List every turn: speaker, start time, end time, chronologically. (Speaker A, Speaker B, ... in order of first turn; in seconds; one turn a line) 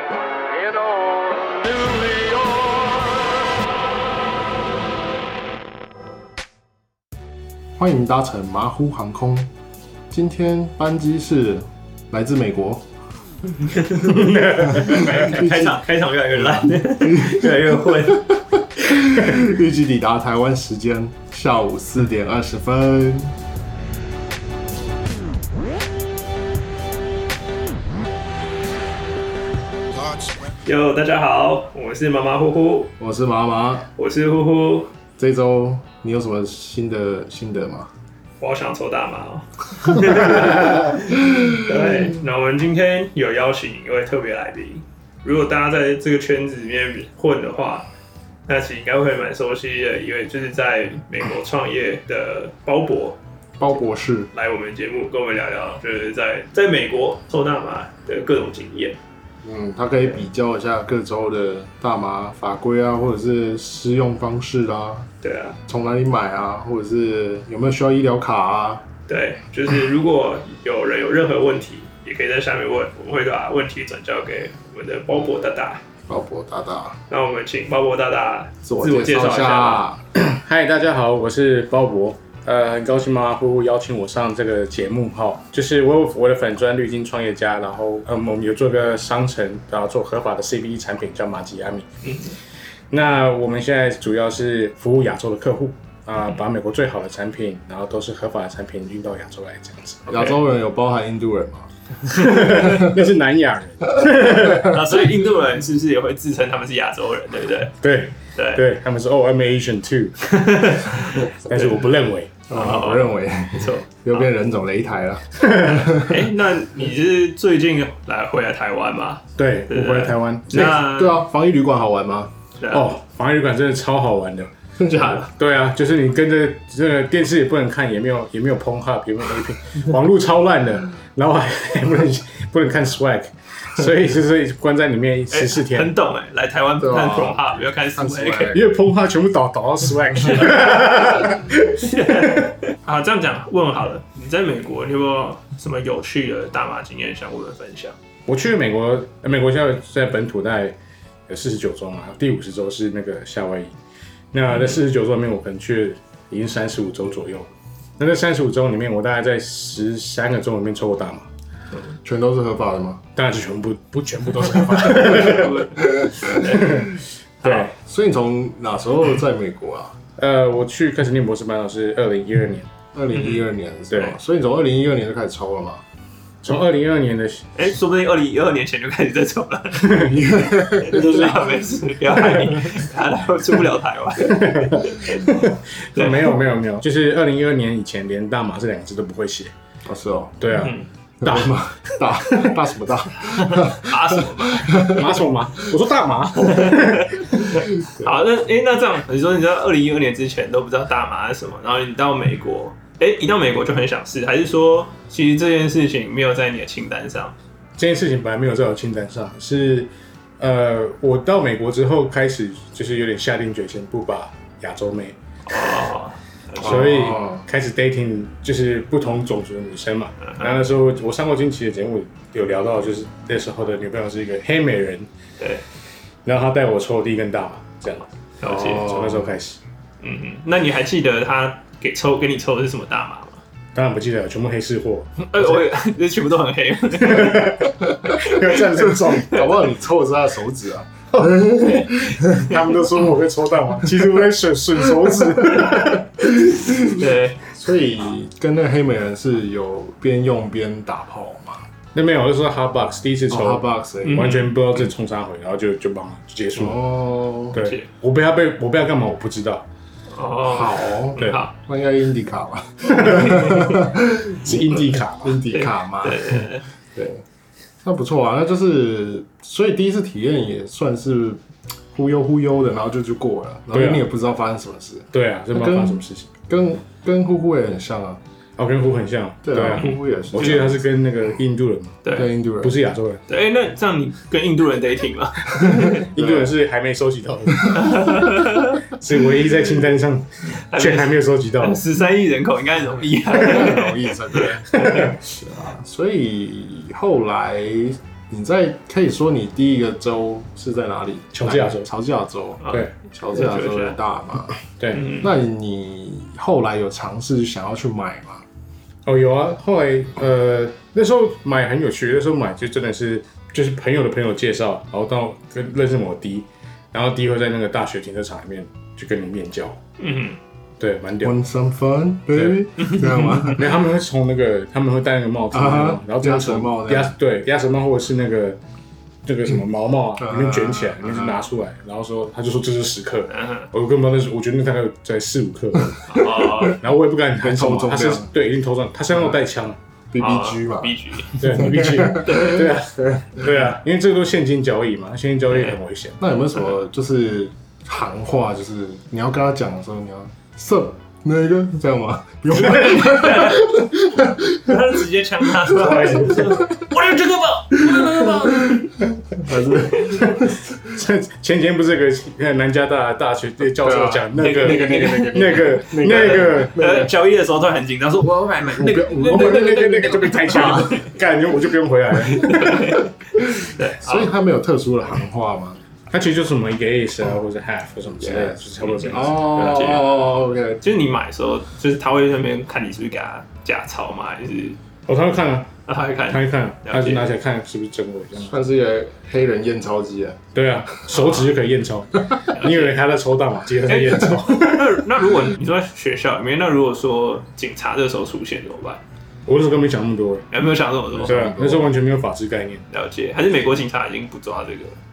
Speaker A: 0.3-3.3
Speaker B: 7.8-9.5
Speaker B: 10.1-12.8
Speaker C: 13.6-18.3
Speaker D: 14.1-15.3
Speaker B: 14.7-15.8
Speaker B: 16.4-23.3
Speaker C: 30.6-32.9
Speaker B: 33.0-33.9
Speaker C: 34.0-34.9
Speaker B: 35.2-37.9
Speaker C: 38.4-47.9
Speaker C: 48.5-53.2
Speaker B: 53.6-54.3
Speaker C: 54.3-59.0
Speaker B: 59.4-65.1
Speaker C: 65.2-65.6
Speaker B: 65.7-68.8
Speaker C: 69.1-75.8
Speaker B: 76.1-77.0
Speaker C: 77.1-79.9
Speaker B: 78.6-80.0
Speaker D: 80.1-91.9
Speaker C: 92.0-92.3
Speaker D: 92.9-100.2
Speaker B: 100.1-101.7
Speaker D: 102.1-104.8
Speaker B: 102.4-102.9
Speaker C: 104.4-107.8
Speaker D: 107.8-112.4
Speaker C: 108.3-108.6
Speaker C: 110.3-111.8
Speaker B: 112.5-116.3
Speaker C: 112.5-114.2
Speaker C: 116.0-121.2
Speaker D: 119.3-120.7
Speaker B: 120.5-122.3
Speaker D: 122.7-135.9
Speaker B: 124.8-125.3
Speaker C: 135.3-138.6
Speaker B: 136.8-138.7
Speaker D: 138.5-142.5
Speaker C: 141.8-148.0
Speaker D: 148.3-150.8
Speaker D: 151.3-153.7
Speaker D: 154.3-161.3
Speaker B: 162.0-163.0
Speaker D: 163.2-165.7
Speaker C: 165.0-166.8
Speaker B: 165.8-166.7
Speaker D: 166.4-166.9
Speaker C: 167.4-167.7
Speaker D: 167.4-167.7
Speaker B: 167.7-170.0
Speaker D: 170.2-172.7
Speaker B: 172.9-175.8
Speaker C: 173.1-173.4
Speaker D: 173.9-174.2
Speaker D: 176.4-177.5
Speaker C: 177.6-180.1
Speaker D: 179.8-180.1
Speaker B: 179.9-181.2
Speaker C: 180.7-185.3
Speaker D: 184.2-189.5
Speaker C: 185.9-186.3
Speaker B: 189.8-190.4
Speaker D: 190.4-191.6
Speaker C: 190.6-190.9
Speaker B: 191.2-195.2
Speaker C: 193.2-194.8
Speaker D: 194.8-197.3
Speaker C: 196.3-207.3
Speaker D: 207.8-215.2
Speaker C: 215.5-216.9
Speaker D: 216.6-225.1
Speaker B: 216.6-217.4
Speaker C: 220.2-220.6
Speaker D: 226.2-228.1
Speaker C: 228.4-228.8
Speaker B: 228.4-229.3
Speaker D: 228.6-229.6
Speaker C: 230.0-233.4
Speaker D: 233.7-235.5
Speaker C: 235.2-238.3
Speaker D: 237.0-239.5
Speaker B: 238.1-242.5
Speaker C: 241.5-242.5
Speaker D: 242.4-246.1
Speaker B: 245.2-251.7
Speaker C: 246.8-247.4
Speaker D: 251.9-256.8
Speaker B: 253.3-254.8
Speaker C: 254.0-254.4
Speaker B: 256.6-257.6
Speaker D: 257.5-259.7
Speaker C: 257.6-257.9
Speaker C: 260.1-261.5
Speaker B: 260.4-267.2
Speaker D: 262.9-263.7
Speaker D: 264.4-265.4
Speaker C: 265.5-266.6
Speaker B: 267.8-271.4
Speaker B: 271.9-278.2
Speaker D: 273.7-274.1
Speaker D: 275.1-276.3
Speaker D: 278.6-282.0
Speaker B: 279.4-280.8
Speaker C: 279.8-280.7
Speaker B: 282.1-282.8
Speaker D: 282.6-283.2
Speaker C: 283.3-286.1
Speaker B: 285.7-286.5
Speaker D: 286.1-288.1
Speaker C: 287.7-288.8
Speaker D: 288.8-291.8
Speaker C: 290.4-295.1
Speaker B: 293.3-304.6
Speaker D: 294.8-295.1
Speaker D: 301.3-301.9
Speaker C: 302.6-304.0
Speaker D: 304.8-305.1
Speaker C: 304.9-305.3
Speaker B: 305.2-308.4
Speaker D: 309.1-319.8
Speaker C: 320.0-320.4
Speaker D: 320.8-321.4
Speaker B: 321.2-323.8
Speaker D: 322.3-322.6
Speaker C: 322.8-323.3
Speaker D: 323.4-328.6
Speaker B: 325.5-327.1
Speaker D: 329.2-339.8
Speaker B: 330.2-331.4
Speaker C: 333.3-333.7
Speaker B: 335.8-336.8
Speaker C: 336.1-336.8
Speaker B: 337.4-338.3
Speaker B: 340.1-343.4
Speaker C: 340.2-341.6
Speaker D: 341.4-346.2
Speaker C: 342.2-342.6
Speaker C: 345.5-345.8
Speaker B: 346.2-356.9
Speaker C: 352.5-353.9
Speaker C: 354.6-358.9
Speaker D: 355.7-356.7
Speaker B: 357.7-360.8
Speaker C: 359.9-360.3
Speaker D: 360.9-366.8
Speaker B: 363.8-367.1
Speaker C: 364.4-371.1
Speaker B: 368.6-370.9
Speaker D: 369.1-372.9
Speaker C: 372.3-374.3
Speaker B: 372.3-375.8
Speaker D: 376.1-380.0
Speaker B: 378.1-380.8
Speaker C: 378.8-380.0
Speaker C: 380.8-384.8
Speaker D: 385.1-385.7
Speaker C: 385.9-387.2
Speaker D: 386.3-388.6
Speaker B: 388.4-390.4
Speaker D: 390.5-395.0
Speaker C: 391.1-391.4
Speaker C: 392.5-393.0
Speaker C: 393.9-399.0
Speaker D: 399.4-400.5
Speaker C: 400.5-401.5
Speaker B: 401.1-401.9
Speaker D: 401.2-402.8
Speaker C: 402.9-405.0